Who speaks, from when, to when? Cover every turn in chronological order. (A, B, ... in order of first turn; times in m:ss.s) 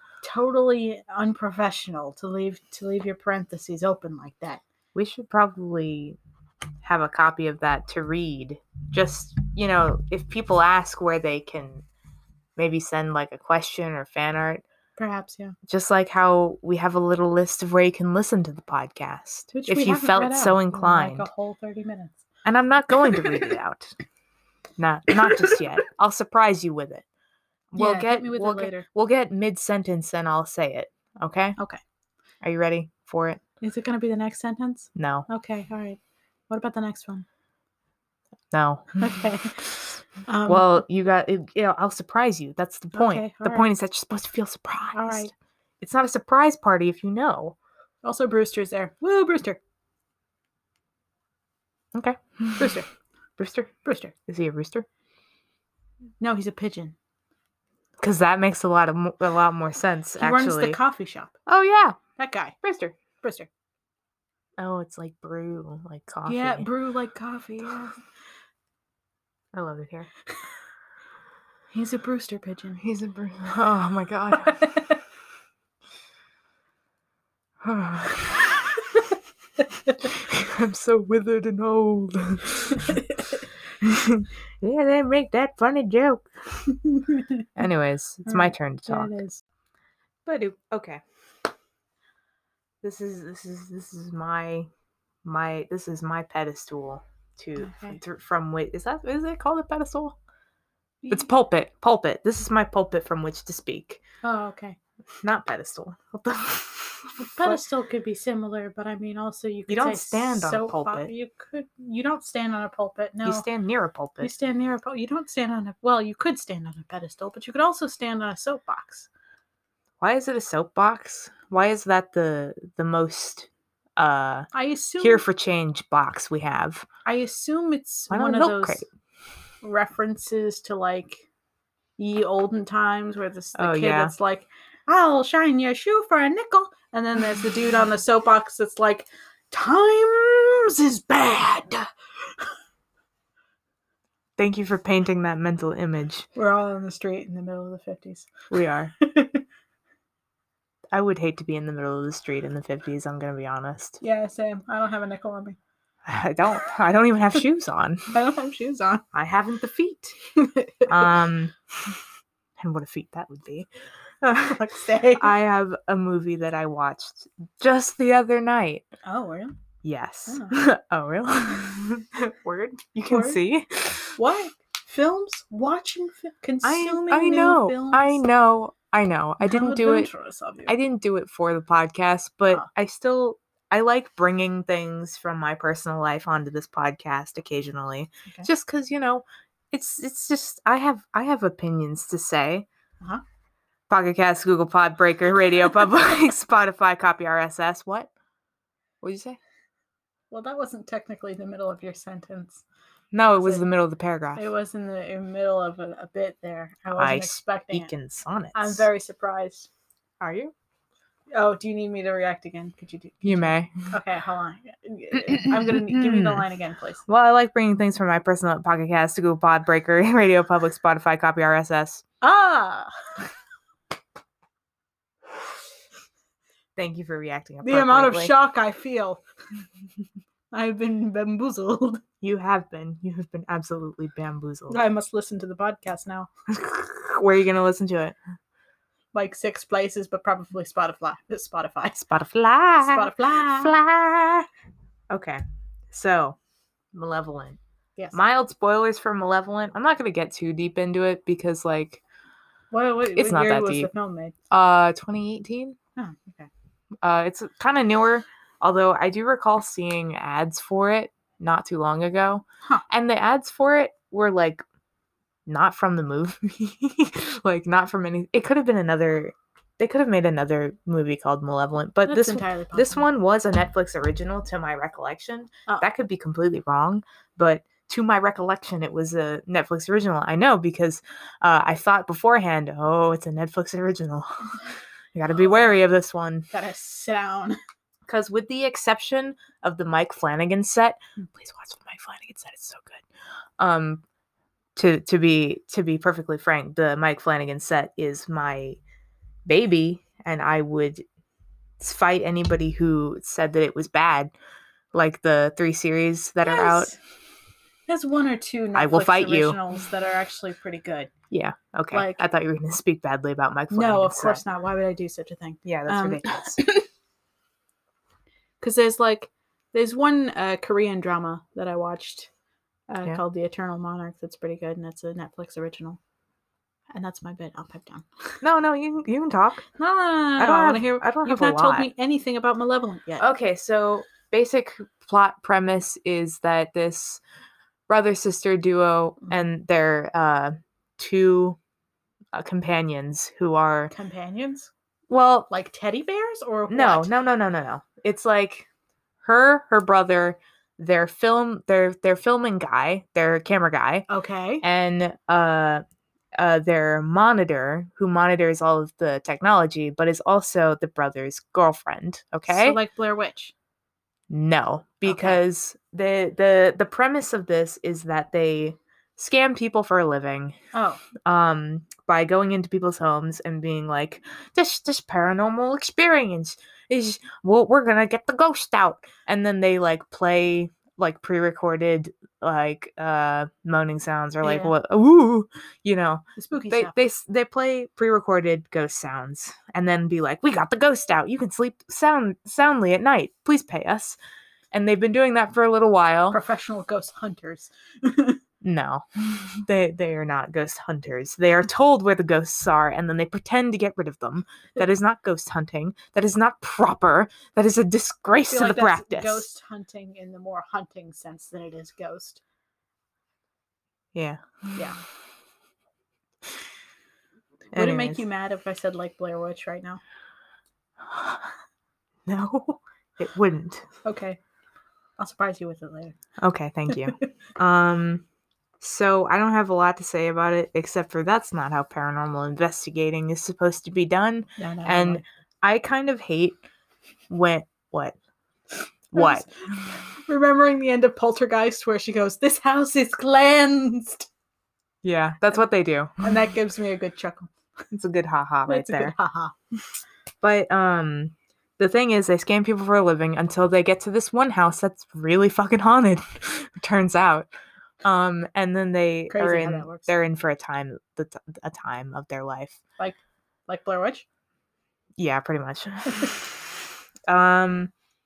0:00.2-0:04.6 A
0:05.0-0:06.2 B
0:06.8-0:11.8 B
0:12.6-0:14.6 B
0:15.0-0:15.6 A
0:15.7-0:21.3 B
0:19.5-0:22.2 A
0:22.4-0:24.0 B
0:24.8-0:27.0 B
0:27.7-0:31.6 B
0:27.8-0:28.9 A
0:32.4-0:33.4 B
0:33.6-0:36.0 A
0:35.0-0:35.3 B
0:36.5-0:37.3 A
0:38.5-0:39.0 B
0:39.0-0:39.7 A
0:40.2-0:40.7 A
0:40.5-0:47.6 B
0:42.9-0:43.7 A
0:44.9-0:45.3 A
0:48.0-0:49.6 A
0:51.9-0:52.8 B
0:52.6-0:52.9 A
0:53.4-0:53.7 B
0:53.8-0:54.1 A
0:54.3-0:54.9 B
0:56.2-0:57.0 A
0:58.0-1:00.8 B
1:00.2-1:01.3 A
1:01.5-1:02.0 B
1:02.2-1:02.6 A
1:02.6-1:03.0 B
1:03.2-1:03.5 A
1:04.6-1:06.7 B
1:06.3-1:08.0 A
1:09.5-1:10.1 B
1:11.7-1:12.8 A
1:12.8-1:14.7 B
1:14.5-1:15.0 A
1:17.6-1:18.5 B
1:20.1-1:23.0 B
1:22.9-1:23.4 A
1:23.8-1:26.6 B
1:26.8-1:27.5 A
1:27.6-1:29.2 B
1:28.3-1:29.4 A
1:30.3-1:31.0 B
1:32.8-1:34.7 B
1:35.2-1:40.2 B
1:37.6-1:38.0 A
1:41.1-1:44.0 B
1:44.2-1:44.8 A
1:45.2-1:47.6 B
1:47.3-1:53.5 A
1:49.7-1:51.1 B
1:53.2-1:54.3 B
1:54.2-1:59.1 A
2:00.0-2:04.5 B
2:04.5-2:05.2 A
2:05.0-2:06.9 B
2:07.1-2:08.8 A
2:08.1-2:08.9 B
2:09.6-2:11.3 A
2:12.0-2:21.9 A
2:13.6-2:14.1 B
2:24.4-2:26.3 B
2:26.4-2:28.3 A
2:28.5-2:28.9 B
2:29.0-2:29.4 A
2:30.9-2:34.0 B
2:34.0-2:35.6 A
2:36.0-2:38.1 B
2:38.1-2:39.0 A
2:39.1-2:40.2 B
2:40.4-2:41.1 A
2:40.9-2:41.5 B
2:42.6-2:43.7 B
2:44.2-2:48.9 B
2:44.5-2:45.3 A
2:49.0-2:49.6 A
2:49.8-2:54.2 B
2:50.3-2:50.5 A
2:53.0-2:53.4 A
2:54.2-2:58.2 A
2:56.6-3:00.1 B
2:59.4-3:00.7 A
3:00.7-3:12.7 B
3:13.9-3:18.1 B
3:19.0-3:19.4 B
3:20.3-3:22.6 A
3:23.1-3:24.4 B
3:24.4-3:27.9 A
3:27.0-3:28.9 B
3:28.5-3:29.7 A
3:30.2-3:30.5 B
3:31.3-3:37.0 A
3:33.2-3:33.9 B
3:35.2-3:36.4 B
3:37.1-3:42.0 B
3:42.2-3:42.9 A
3:46.8-3:48.3 B
3:47.6-3:49.2 A
3:50.5-3:52.0 A
3:52.2-3:54.8 B
3:54.7-3:56.3 A
3:56.5-3:58.2 B
3:59.1-4:02.0 A
4:02.0-4:04.5 B
4:02.8-4:03.8 A
4:05.1-4:06.4 B
4:06.9-4:07.6 B
4:08.1-4:12.0 B
4:12.7-4:14.4 A
4:13.2-4:13.9 B
4:14.5-4:15.8 B
4:16.0-4:16.5 A
4:17.0-4:24.6 B
4:25.5-4:44.6 B
4:32.1-4:33.0 A
4:45.1-4:46.5 B
4:46.5-4:47.6 A
4:48.1-4:53.0 B
4:53.6-4:54.0 B
4:54.8-4:58.8 B
4:59.5-5:01.0 B
5:01.8-5:04.3 B
5:04.9-5:06.9 B
5:06.4-5:07.0 A
5:07.9-5:11.1 A
5:08.7-5:09.6 B
5:11.3-5:14.4 B
5:11.9-5:12.2 A
5:13.7-5:16.8 A
5:15.6-5:16.6 B
5:18.6-5:22.3 A
5:22.9-5:26.0 A
5:26.9-5:28.4 A
5:28.4-5:29.7 B
5:29.8-5:33.2 A
5:30.4-5:31.9 B
5:33.2-5:37.2 B
5:37.9-5:41.6 B
5:42.3-5:43.9 B
5:43.9-5:44.7 A
5:45.1-5:45.5 B
5:45.5-5:47.1 A
5:46.7-5:48.7 B
5:49.2-5:54.1 B
5:54.1-5:54.6 A
5:54.6-5:55.8 B
5:56.4-6:02.8 B
6:02.5-6:03.5 A
6:04.3-6:10.6 B
6:05.0-6:05.4 A
6:10.7-6:11.0 A
6:11.2-6:34.2 B
6:24.4-6:24.7 A
6:26.4-6:26.9 A
6:34.7-6:36.4 B
6:36.3-6:38.4 A
6:38.6-6:49.5 B
6:48.5-6:52.4 A
6:54.1-6:54.8 B
6:54.8-6:55.0 A
6:57.7-6:58.2 B
6:57.8-7:00.0 A
7:01.1-7:01.4 B
7:02.3-7:03.9 B
7:04.0-7:04.4 A
7:05.2-7:06.2 A
7:06.4-7:08.2 B
7:06.9-7:07.2 A
7:08.8-7:16.6 B
7:14.6-7:15.2 A
7:17.3-7:18.2 B
7:19.1-7:19.5 B
7:19.2-7:24.3 A
7:25.0-7:26.3 B
7:26.2-7:27.5 A
7:27.9-7:29.2 B
7:28.7-7:29.6 A
7:30.4-7:37.5 B
7:38.0-7:42.8 B
7:39.3-7:40.1 A
7:43.0-7:44.3 A
7:45.2-7:46.5 B
7:47.3-7:47.9 B